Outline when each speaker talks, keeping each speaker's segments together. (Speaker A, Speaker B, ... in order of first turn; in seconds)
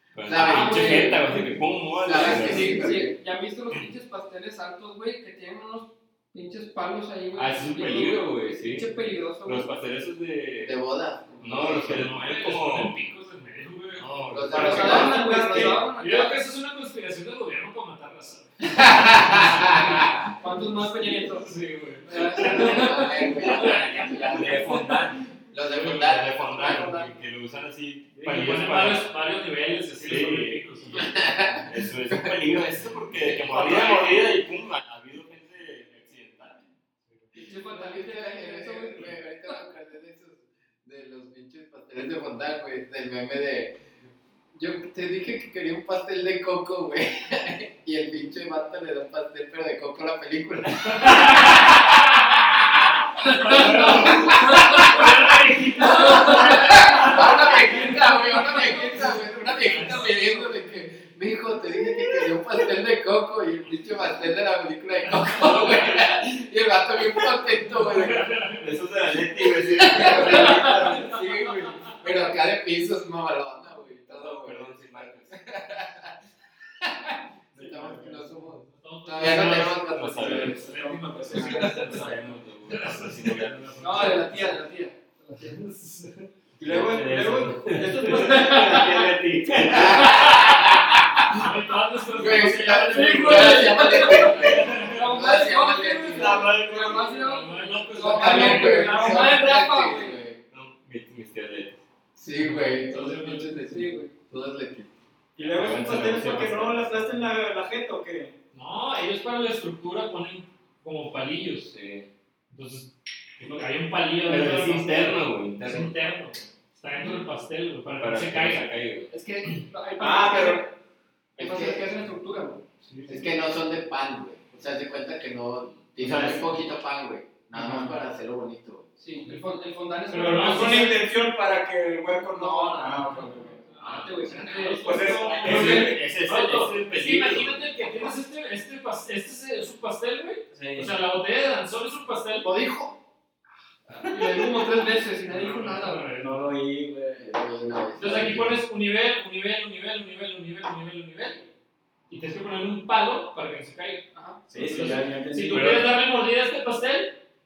Speaker A: 0.1-3.1, 7.3-10.8, 11.4-12.9, 14.0-15.1, 24.2-29.2, 30.0-36.7, 68.6-71.1, 74.1-75.3, 79.2-80.7, 81.3-84.2, 86.7-90.6, 94.4-94.9, 96.1-97.1, 100.5-101.8, 105.4-107.1, 111.6-112.1, 114.2-116.0, 118.0-119.1, 126.0-126.5, 133.8-134.3, 135.3-138.1, 155.5-155.9
Speaker B: 0.2-1.4, 1.9-3.1, 10.6-12.1, 14.3-15.2, 18.6-20.2, 22.2-24.8, 25.5-27.0, 30.9-32.5, 33.5-33.9, 37.3-43.8, 44.5-68.5, 69.7-76.2, 76.8-80.8, 89.7-91.5, 92.1-96.5, 98.0-100.4, 102.2-104.9, 121.4-121.9, 123.1-128.8, 147.2-148.6
Speaker C: 0.4-1.5, 2.1-9.7, 14.5-16.4, 20.4-25.0, 26.5-27.1, 37.4-39.6, 53.2-55.0, 55.8-59.2, 83.8-85.6, 88.2-88.9, 92.6-100.2, 103.5-104.1, 119.1-120.7, 121.4-122.7, 129.0-131.0, 132.3-133.2, 133.8-135.8, 142.4-143.0, 144.1-146.1, 154.1-154.4
Speaker D: 11.8-20.2, 20.8-24.8, 28.2-31.2, 33.3-34.4, 50.9-52.0, 53.2-60.6, 65.3-66.0, 67.8-68.8, 70.0-71.1, 78.4-84.5, 85.4-86.3, 88.0-88.4, 89.7-95.0, 96.6-99.3, 102.4-103.8, 108.5-111.7, 112.5-118.7, 122.8-123.2, 129.2-129.5, 130.1-131.0, 133.0-142.5, 143.9-146.4, 148.0-151.5, 152.1-154.1, 154.6-157.2
Speaker E: 14.5-15.9, 77.5-78.3, 80.1-82.3, 86.6-89.0, 105.4-108.3, 113.4-113.7, 120.0-120.7, 127.5-127.9, 130.2-133.7, 134.8-136.0, 140.5-140.9, 146.2-147.4, 154.5-155.9